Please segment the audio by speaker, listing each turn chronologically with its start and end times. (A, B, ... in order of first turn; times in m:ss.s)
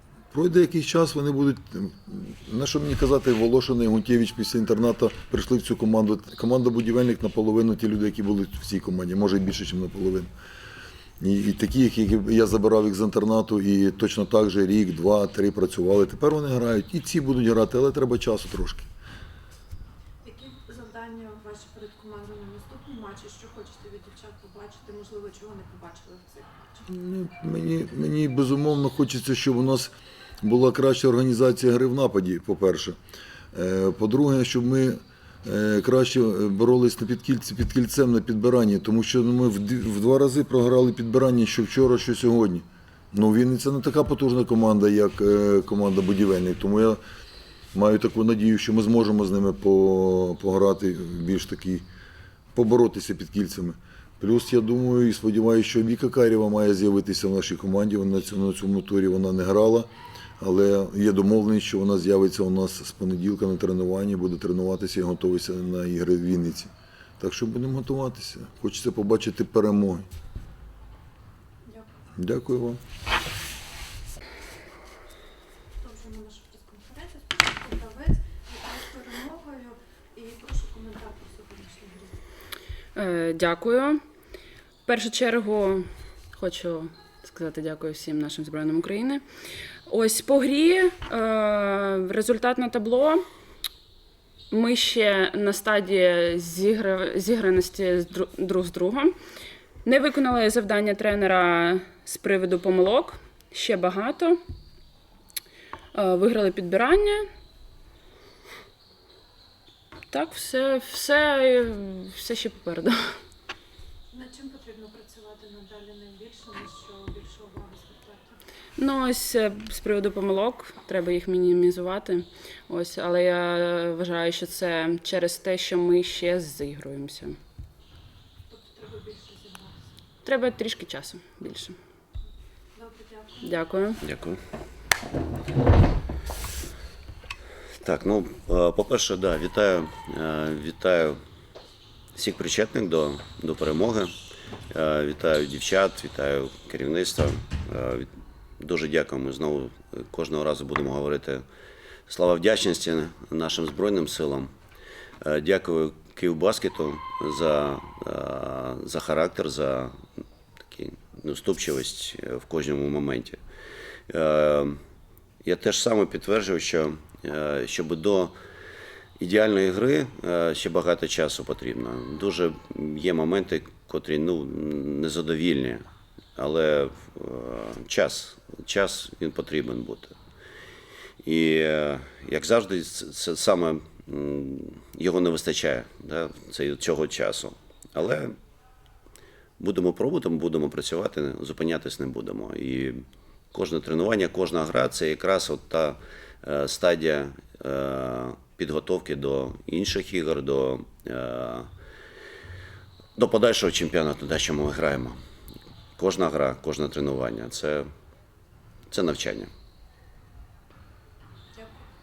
0:00.3-0:10.3 A
0:11.2-0:18.9 A
0:20.2-0:26.8 B
0:26.9-0:33.0 A
0:33.5-0:47.0 A
0:47.7-0:51.9 A
0:52.5-1:10.1 A
1:12.2-1:12.8 A
1:15.8-1:22.2 B
1:22.9-1:24.0 C
1:24.8-1:29.2 C
1:29.9-1:33.2 C
1:34.5-1:39.1 C
1:39.8-1:44.4 C
1:45.9-1:47.2 C
1:50.1-1:53.0 C
1:54.1-1:58.4 B
1:58.8-2:07.4 C
2:08.5-2:10.0 B
2:10.2-2:11.8 C
2:12.7-2:13.8 B
2:13.4-2:14.0 C
2:14.0-2:14.4 D
2:17.8-2:21.2 D
2:22.2-2:24.1 D
2:24.7-2:28.1 D
2:28.6-2:31.4 D
2:32.1-2:34.5 D
2:35.2-2:39.9 D
2:40.7-2:43.4 D
2:44.1-2:44.8 D
2:45.4-2:48.3 D
2:49.2-2:55.8 D
2:56.4-3:00.2 D
3:01.2-3:08.4 D
3:09.6-3:21.7 D
3:23.2-3:25.2 D
3:26.0-3:27.9 D
3:28.9-3:29.5 D
3:31.5-3:31.8 B